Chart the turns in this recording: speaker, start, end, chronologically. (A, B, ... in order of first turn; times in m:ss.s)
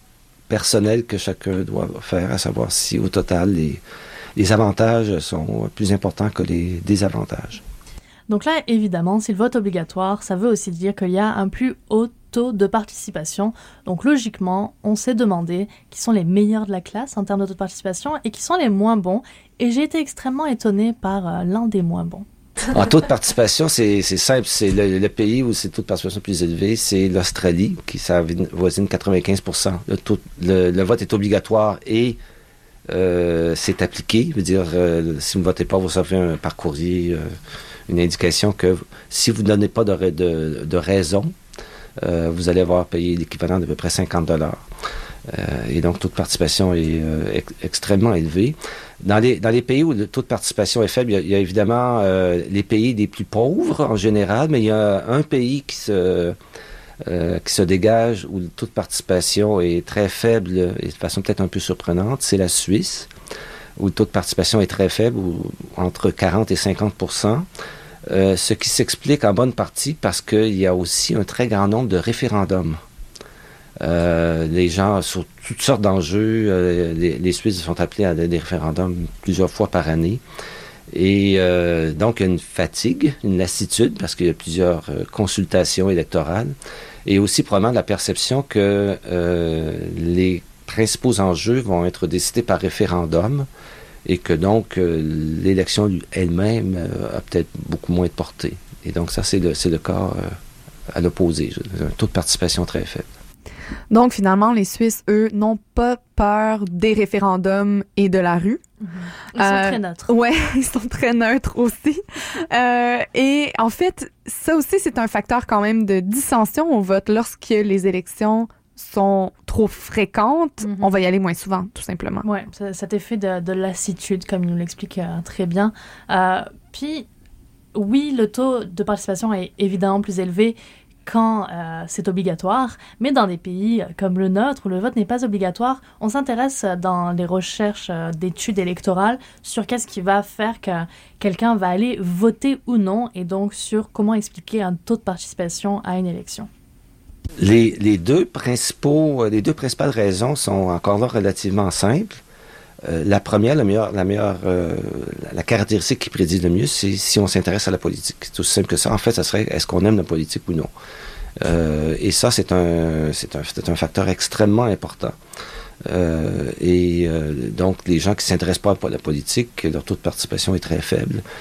0:00.5-0:03.8 A
0:04.4-0:07.6 A
0:08.3-0:22.2 B
0:22.7-0:32.2 A
0:32.9-0:37.3 A
0:37.9-0:41.3 A
0:42.0-0:44.6 A
0:45.3-0:56.4 A
0:57.0-1:03.1 A
1:03.8-1:07.5 A
1:08.1-1:12.8 A
1:13.8-1:20.2 A
1:20.9-1:33.5 A
1:34.0-1:40.4 A
1:40.9-1:43.1 A
1:43.9-1:48.6 C
1:48.8-1:50.1 B
1:49.4-2:02.2 C
2:00.6-2:01.0 B
2:02.2-2:07.0 B
2:07.7-2:26.5 B
2:27.4-2:32.2 A
2:32.8-2:40.7 A
2:41.4-2:45.2 A
2:45.8-2:51.2 A